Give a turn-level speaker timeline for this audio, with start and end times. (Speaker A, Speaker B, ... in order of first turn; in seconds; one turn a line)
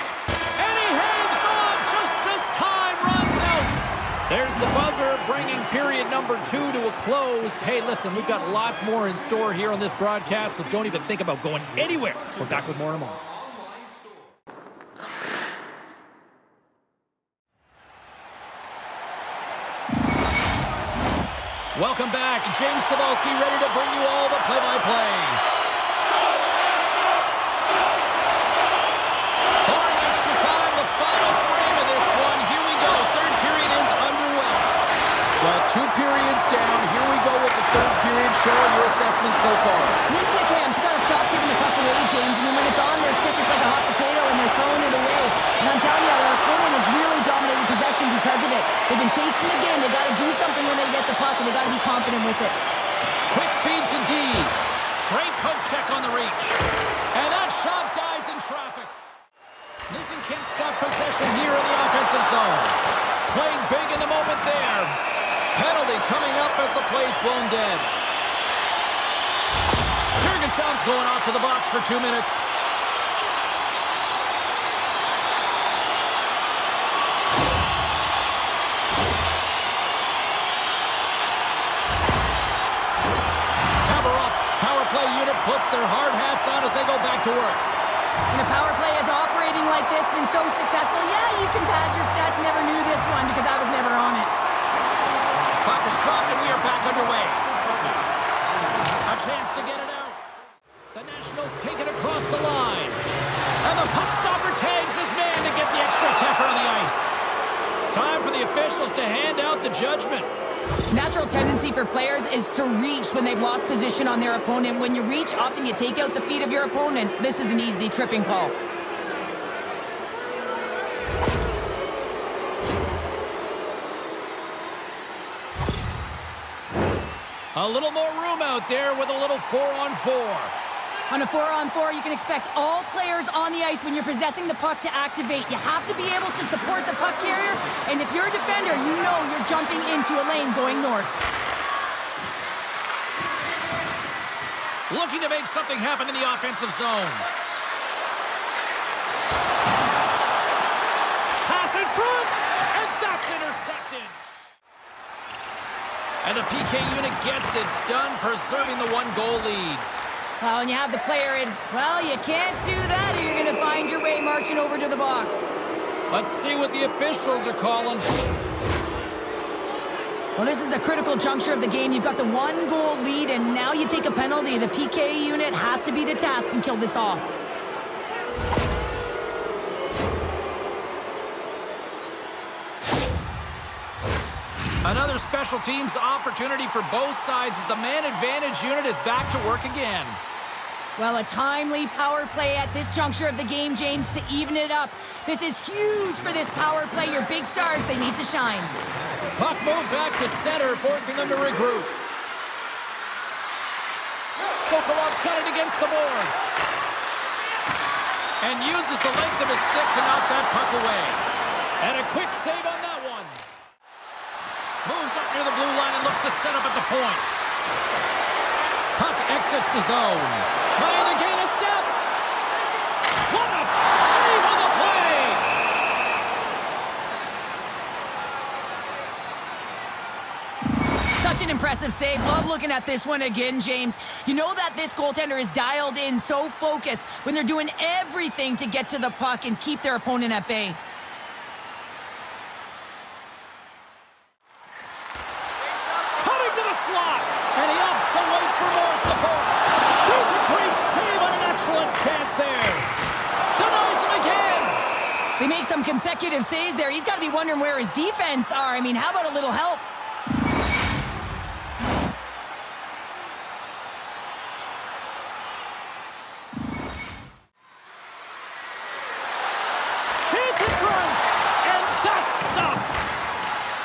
Speaker A: 0.6-13.3
Speaker A: 21.7-25.4
Speaker A: 29.6-34.8
Speaker A: 35.4-40.0
Speaker B: 40.1-52.6
Speaker A: 53.3-56.6
Speaker A: 57.1-58.9
Speaker A: 59.9-64.9
Speaker A: 65.5-67.9
Speaker A: 70.2-72.4
Speaker A: 83.8-87.7
Speaker B: 88.3-94.3
Speaker A: 95.6-97.5
Speaker A: 99.0-100.2
Speaker A: 100.9-103.0
Speaker A: 103.6-107.1
Speaker A: 107.9-110.3
Speaker B: 110.9-118.5
Speaker A: 127.5-130.5
Speaker B: 131.1-141.1
Speaker A: 144.9-147.3
Speaker A: 151.4-154.2
Speaker A: 156.2-159.9
Speaker B: 160.4-165.5
Speaker A: 166.1-168.1
Speaker B: 170.3-177.3
Speaker A: 184.8-190.2
Speaker B: 191.0-198.8
Speaker A: 199.3-202.0
Speaker A: 204.3-206.5
Speaker A: 208.4-211.2
Speaker A: 211.8-213.4
Speaker A: 214.8-217.3
Speaker A: 218.9-221.9
Speaker A: 223.3-225.5
Speaker B: 231.2-240.8
Speaker A: 246.0-252.9
Speaker A: 253.6-254.8
Speaker B: 255.4-259.8
Speaker A: 270.2-273.0